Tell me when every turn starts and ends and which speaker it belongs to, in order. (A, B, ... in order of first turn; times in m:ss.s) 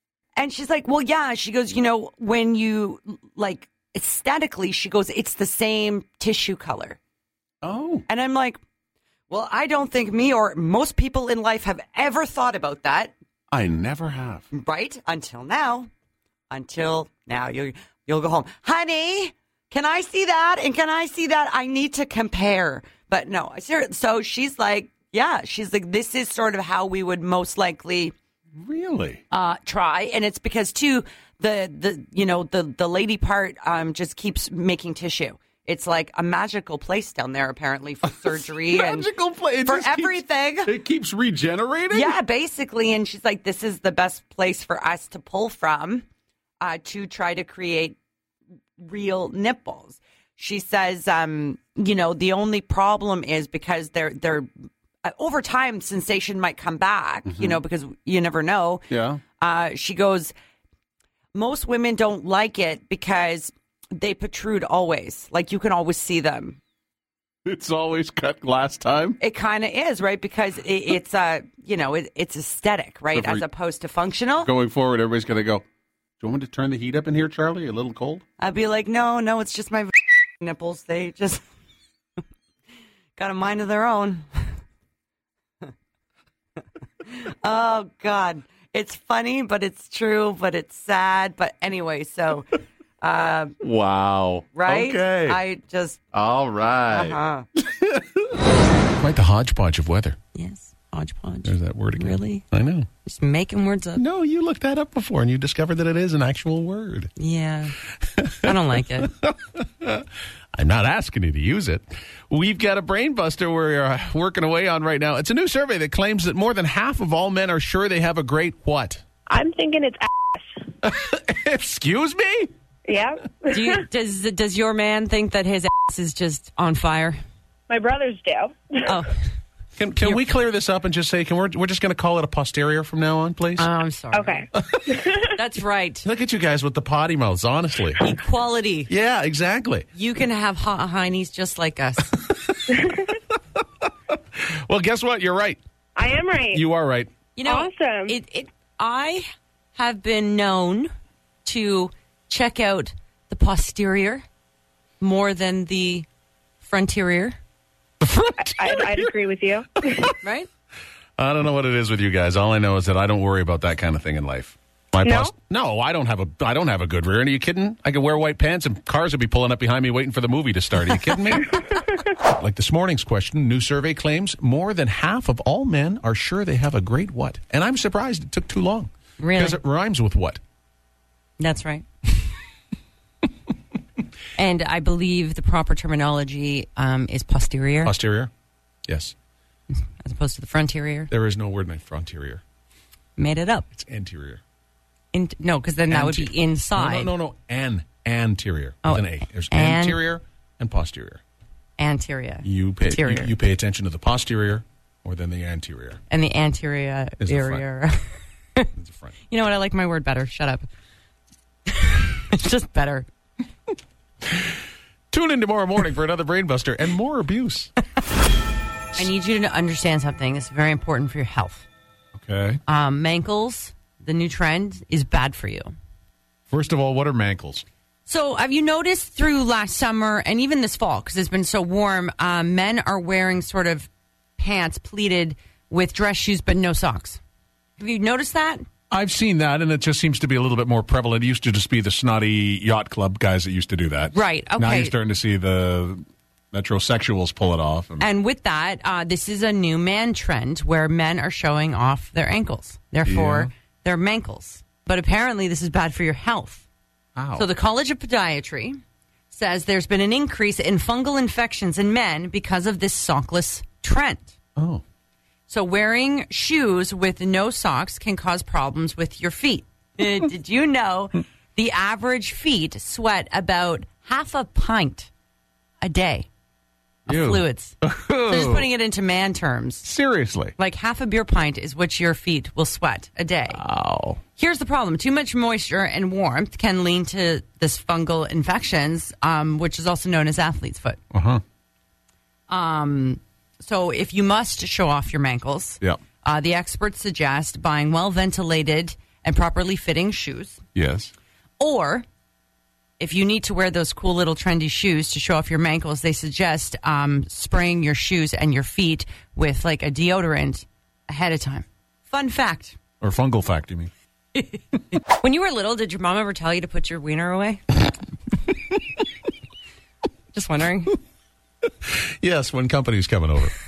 0:00.4-0:07.0 A
0:07.6-0:08.0 B
0:08.1-0:08.6 A
0:09.3-0:13.1 A
0:13.5-0:14.4 B
0:14.5-0:15.9 A
0:16.5-0:28.1 A
0:28.6-0:29.2 B
0:29.3-0:39.1 A
0:38.6-0:42.1 B
0:39.6-0:40.7 A
0:41.9-0:46.0 A
0:46.6-0:48.0 A
0:48.8-0:54.5 A
0:55.0-1:00.3 A
0:57.3-0:57.6 B
0:58.9-0:59.2 B
1:01.3-1:06.6 A
1:07.4-1:09.2 B
1:09.2-1:14.5 A
1:13.1-1:13.4 B
1:14.4-1:15.6 B
1:16.2-1:18.2 B
1:18.4-1:21.4 A
1:23.2-1:24.4 A
1:27.0-1:32.5 A
1:33.0-1:33.6 A
1:33.6-1:35.4 B
1:34.5-1:36.0 A
1:36.1-1:38.3 B
1:36.9-1:37.4 A
1:39.0-1:40.2 B
1:40.3-1:42.4 A
1:41.4-1:42.9 B
1:43.0-1:44.0 A
1:44.0-1:47.1 B
1:47.2-1:47.8 A
1:48.1-1:48.5 B
1:48.4-1:49.1 A
1:49.2-1:59.0 B
1:59.3-2:00.5 C
2:00.8-2:02.5 B
2:02.9-2:03.8 C
2:03.5-2:07.2 A
2:07.7-2:08.8 C
2:08.9-2:09.2 A
2:09.8-2:13.7 B
2:13.6-2:14.4 A
2:14.1-2:14.5 C
2:14.5-2:14.9 B
2:15.4-2:16.0 A
2:16.0-2:18.0 B
2:18.0-2:18.9 A
2:18.9-2:19.8 B
2:19.9-2:22.1 A
2:22.2-2:23.1 B
2:23.8-2:25.6 B
2:26.0-2:26.6 C
2:26.5-2:27.1 B
2:27.4-2:30.9 A
2:27.5-2:28.1 C
2:31.4-2:34.2 A
2:35.0-2:36.1 A
2:36.6-2:37.4 A
2:38.0-2:39.1 B
2:38.6-2:39.7 C
2:39.9-2:40.1 B
2:40.2-2:40.5 A
2:41.2-3:00.4 B
2:59.2-2:59.6 A
3:01.4-3:01.9 A
3:04.4-3:07.9 A
3:07.8-3:08.3 B
3:08.9-3:09.1 B
3:10.0-3:11.1 A
3:11.1-3:12.4 B
3:13.2-3:13.6 A
3:13.7-3:14.4 B
3:15.1-3:17.1 A
3:15.9-3:21.2 B
3:18.8-3:20.0 A
3:21.8-3:23.3 A
3:22.4-3:26.0 B
3:26.1-3:28.7 A
3:27.2-3:27.6 B
3:28.8-3:29.1 B
3:29.3-3:30.7 A
3:31.7-3:33.1 A
3:35.1-3:37.7 B
3:39.0-3:41.6 A
3:42.1-3:42.6 B
3:42.6-3:45.7 A
3:46.5-3:47.6 B
3:48.0-3:57.2 A
3:57.8-3:58.6 A
3:58.9-4:08.0 B
4:04.1-4:05.0 A
4:08.0-4:16.6 A
4:13.0-4:13.5 B
4:17.2-4:17.5 B
4:17.4-4:24.4 A
4:24.6-4:24.8 B
4:25.5-4:35.1 A
4:35.8-4:36.3 A
4:37.1-4:38.7 B
4:37.1-4:39.9 A
4:39.8-4:40.5 B
4:40.6-4:43.6 A
4:43.5-4:44.2 B
4:44.4-4:51.0 A
4:51.1-4:51.4 B
4:52.5-5:00.6 A
5:00.8-5:01.1 B
5:01.6-5:02.0 A
5:03.0-5:12.8 A
5:13.0-5:13.9 B
5:14.4-5:17.6 A
5:20.3-5:21.0 A
5:21.7-5:23.5 B